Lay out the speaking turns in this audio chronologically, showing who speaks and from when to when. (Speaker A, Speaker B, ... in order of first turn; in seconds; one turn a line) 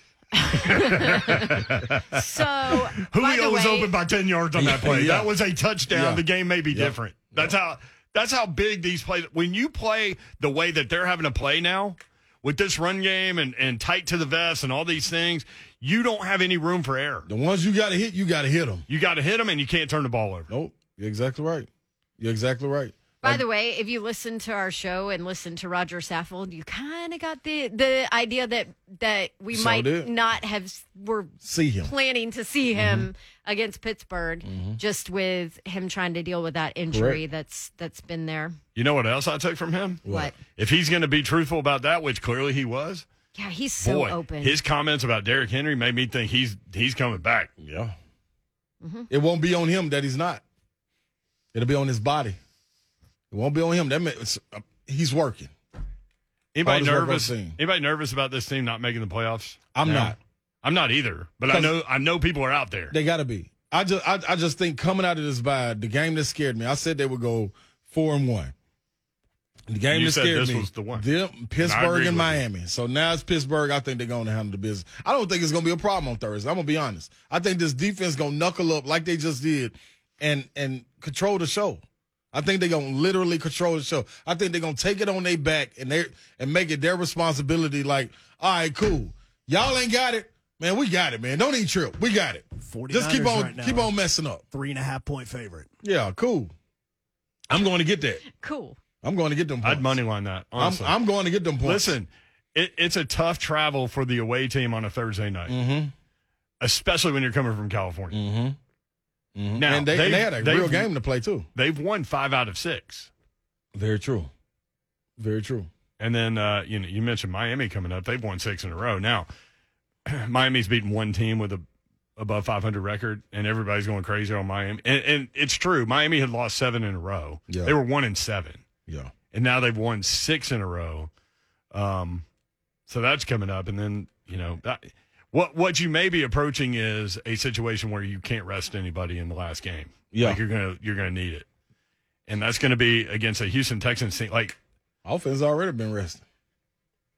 Speaker A: 0.3-1.4
Speaker B: 0.6-2.2
Speaker A: 2.1-3.9
Speaker B: 3.0-17.3
Speaker C: 4.5-5.3
Speaker C: 5.9-7.5
Speaker C: 17.2-18.8
Speaker B: 18.9-20.5
Speaker C: 20.5-23.4
Speaker A: 23.2-38.6
Speaker C: 29.5-30.1
Speaker C: 31.4-31.9
Speaker C: 32.7-33.1
Speaker C: 34.4-34.8
Speaker C: 36.9-37.2
Speaker B: 38.7-40.0
Speaker C: 40.0-40.3
Speaker A: 40.1-40.3
Speaker B: 40.5-43.0
Speaker A: 43.3-44.6
Speaker B: 43.8-47.5
Speaker C: 47.6-48.0
Speaker A: 48.8-49.1
Speaker C: 49.1-50.4
Speaker C: 51.5-52.4
Speaker C: 53.3-55.5
Speaker B: 56.5-62.9
Speaker C: 56.6-57.6
Speaker C: 59.7-60.2
Speaker C: 61.5-61.7
Speaker C: 62.9-68.5
Speaker C: 69.7-94.4
Speaker B: 69.9-71.0
Speaker B: 71.6-72.4
Speaker D: 92.6-93.9
Speaker D: 94.5-95.7
Speaker C: 95.8-96.5
Speaker C: 97.5-98.2
Speaker A: 98.3-98.8
Speaker C: 99.0-100.0
Speaker B: 99.6-100.9
Speaker C: 100.6-102.0
Speaker B: 101.6-105.5
Speaker C: 105.5-105.9
Speaker B: 106.6-108.2
Speaker C: 108.1-108.6
Speaker C: 109.3-111.5
Speaker B: 109.6-110.9
Speaker B: 111.5-113.1
Speaker C: 113.7-114.3
Speaker C: 115.2-115.7
Speaker B: 116.0-119.3
Speaker B: 120.0-121.6
Speaker B: 122.2-128.6
Speaker C: 127.5-127.8
Speaker C: 128.9-129.1
Speaker B: 129.3-131.1
Speaker B: 131.7-132.2
Speaker B: 132.9-141.5
Speaker C: 140.1-140.4
Speaker B: 142.3-144.6
Speaker C: 145.0-146.2